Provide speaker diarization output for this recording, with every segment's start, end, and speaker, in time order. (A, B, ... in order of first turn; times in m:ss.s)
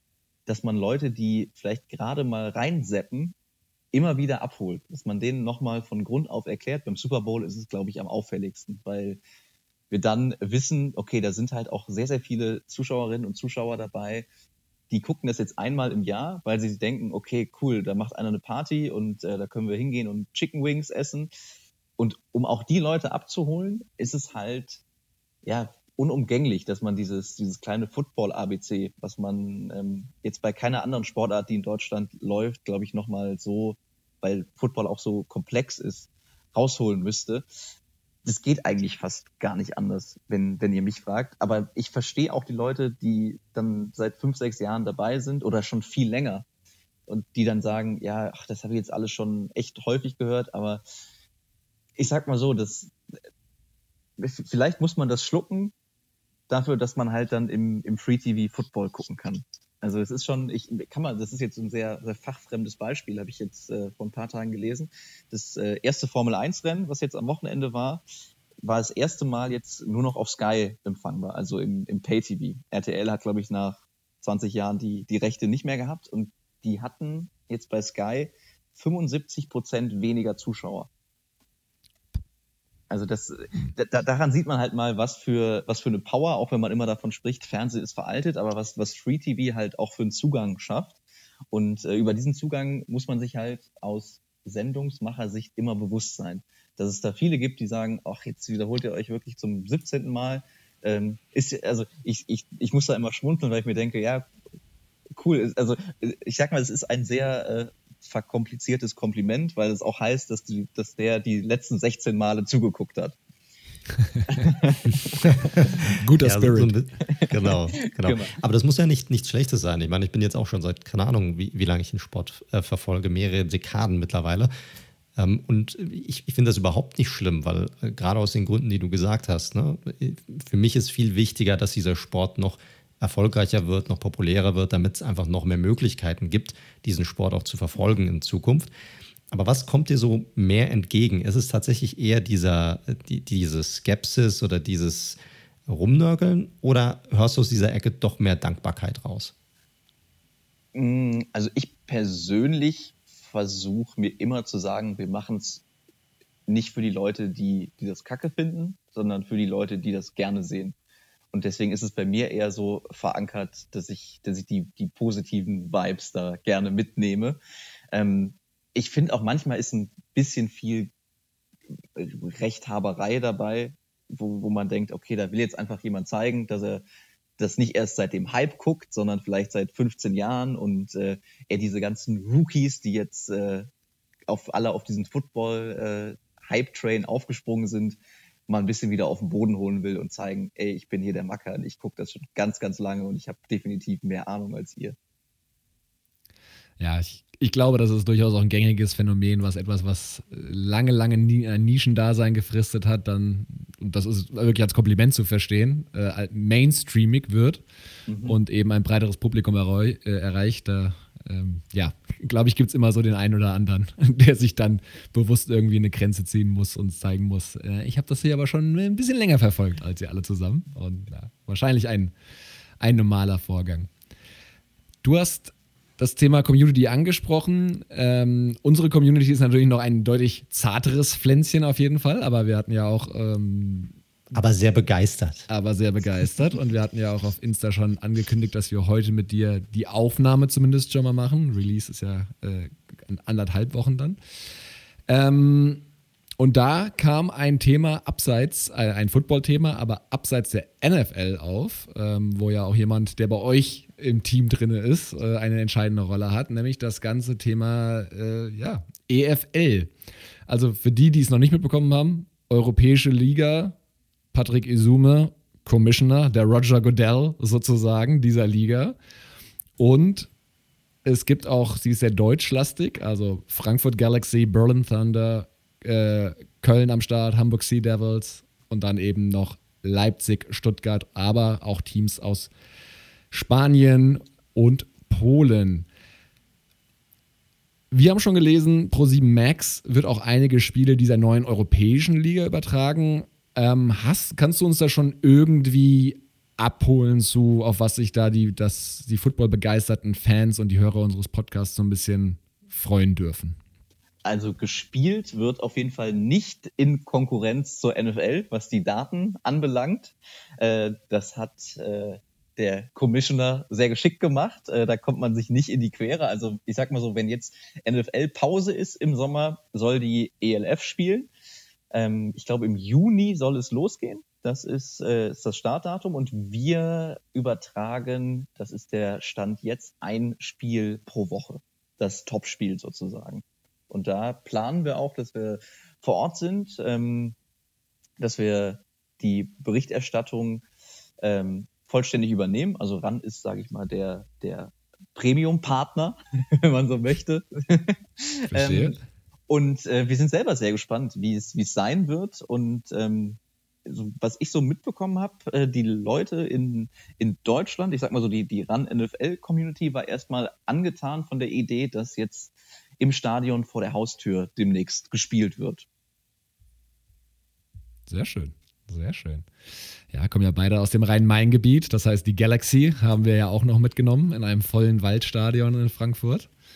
0:00.5-0:03.3 A
0:03.9-0:09.2 A
0:09.9-0:14.2 A
0:14.9-0:21.3 A
0:22.0-0:24.8 A
0:25.4-0:37.4 A
0:38.2-0:46.4 A
0:47.1-0:50.8 A
0:52.0-0:52.9 A
0:54.2-0:55.7 A
0:56.5-1:08.0 A
1:08.6-1:20.9 A
1:22.9-1:31.0 A
1:31.5-1:44.3 A
1:45.2-1:53.2 A
1:54.3-1:55.3 A
1:55.2-2:04.5 B
1:55.8-1:56.7 C
1:57.1-1:58.4 A
2:05.2-2:18.7 B
2:19.3-2:29.3 B
2:30.7-2:35.6 A
2:36.5-2:40.7 A
2:41.3-2:47.4 A
2:47.9-2:50.9 A
2:51.9-2:56.8 A
2:57.4-3:03.7 A
3:04.3-3:15.0 A
3:16.8-3:27.6 C
3:28.1-3:28.4 A
3:28.2-3:42.1 C
3:42.8-3:43.9 C
3:45.0-3:53.9 C
3:54.3-3:55.5 B
3:55.5-4:04.2 C
4:05.1-4:05.8 C
4:06.4-4:19.9 C
4:20.5-4:23.8 C
4:24.3-4:29.0 C
4:29.8-4:30.3 C
4:31.0-4:42.5 C
4:43.3-4:45.9 C
4:47.9-5:03.6 C
5:04.2-5:21.3 A
5:21.9-5:37.3 A
5:38.2-5:40.6 A
5:41.2-5:48.9 A
5:48.5-5:49.0 C
5:49.5-6:05.8 A
6:08.1-6:09.5 C
6:10.1-6:16.5 C